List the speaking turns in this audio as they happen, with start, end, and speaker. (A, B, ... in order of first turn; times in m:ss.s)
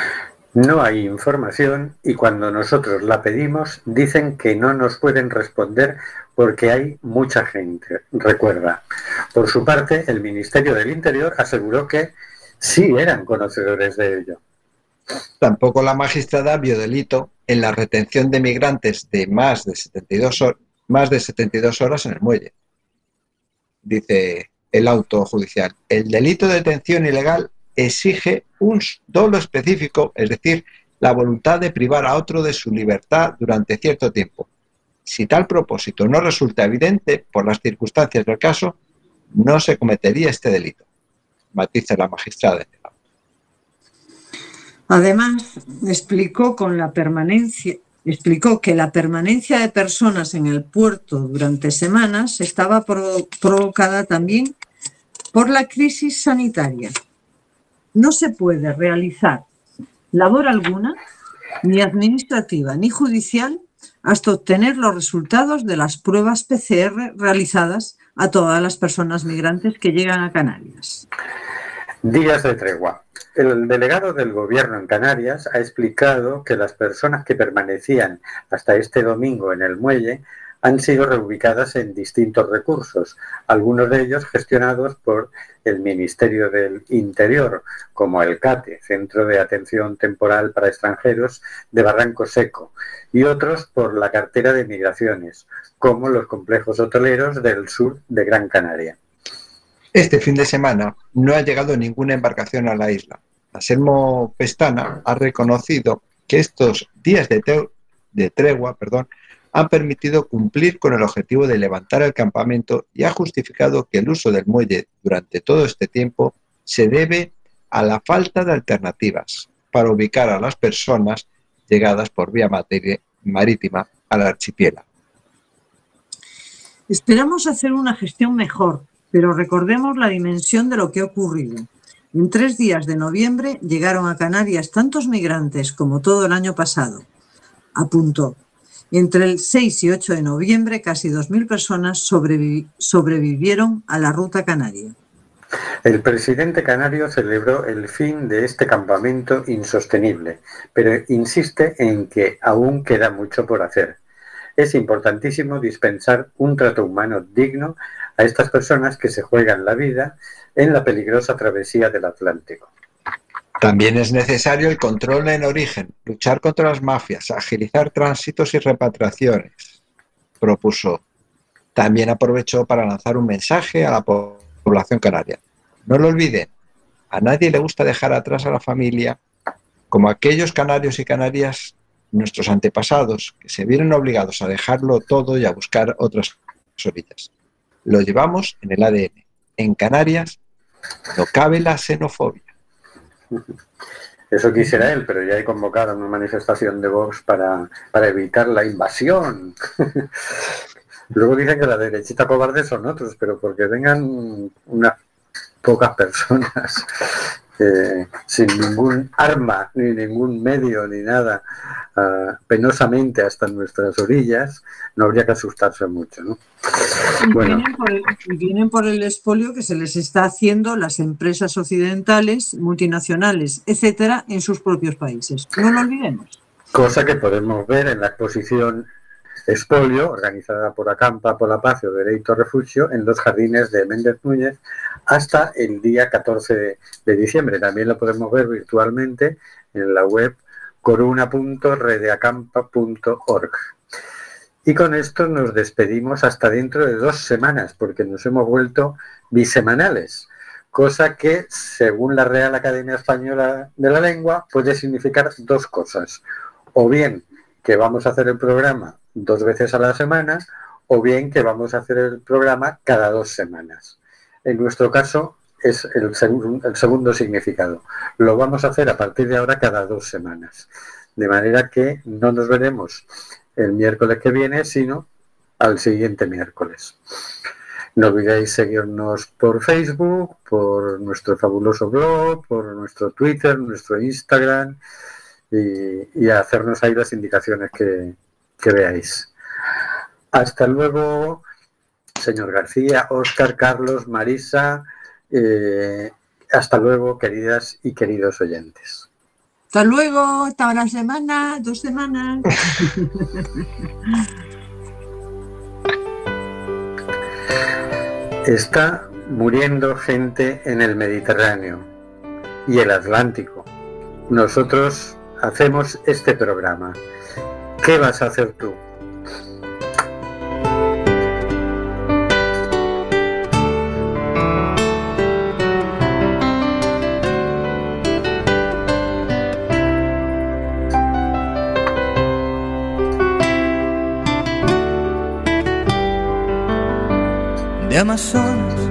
0:00.6-0:08.8 A
0:09.3-0:14.4 A
0:15.4-0:22.5 B
0:23.8-0:34.5 B
0:35.0-0:38.8 B
0:39.3-0:40.8 B
0:41.5-0:42.9 B
0:44.9-0:54.6 C
0:55.3-0:56.9 C
0:57.9-0:59.4 C
1:00.1-1:01.0 C
1:01.6-1:11.1 C
1:12.0-1:39.0 A
1:39.9-2:04.8 B
2:06.9-2:17.0 C
2:17.8-2:18.4 C
2:18.9-2:24.9 C
2:25.8-2:34.0 A
2:34.6-2:42.7 A
2:43.6-2:49.7 B
2:50.4-2:51.0 B
2:51.7-2:56.5 B
2:57.1-2:59.2 B
2:59.9-3:07.3 B
3:07.8-3:10.4 B
3:11.1-3:12.5 B
3:14.3-3:20.0 A
3:21.1-3:24.9 A
3:25.6-3:31.4 A
3:32.0-3:37.6 A
3:37.2-3:46.4 C
3:46.7-3:48.9 A
3:49.5-4:03.6 A
4:04.6-4:16.2 A
4:16.7-4:33.0 A
4:33.6-4:35.1 A
4:35.6-4:37.0 A
4:38.0-4:44.8 A
4:45.5-4:49.3 A
4:50.3-4:51.4 A
4:52.2-4:59.1 A
4:59.7-5:03.4 C
5:08.4-5:11.9 A
5:12.6-5:13.7 A
5:14.3-5:17.0 A
5:17.8-5:18.8 A
5:37.9-5:38.7 C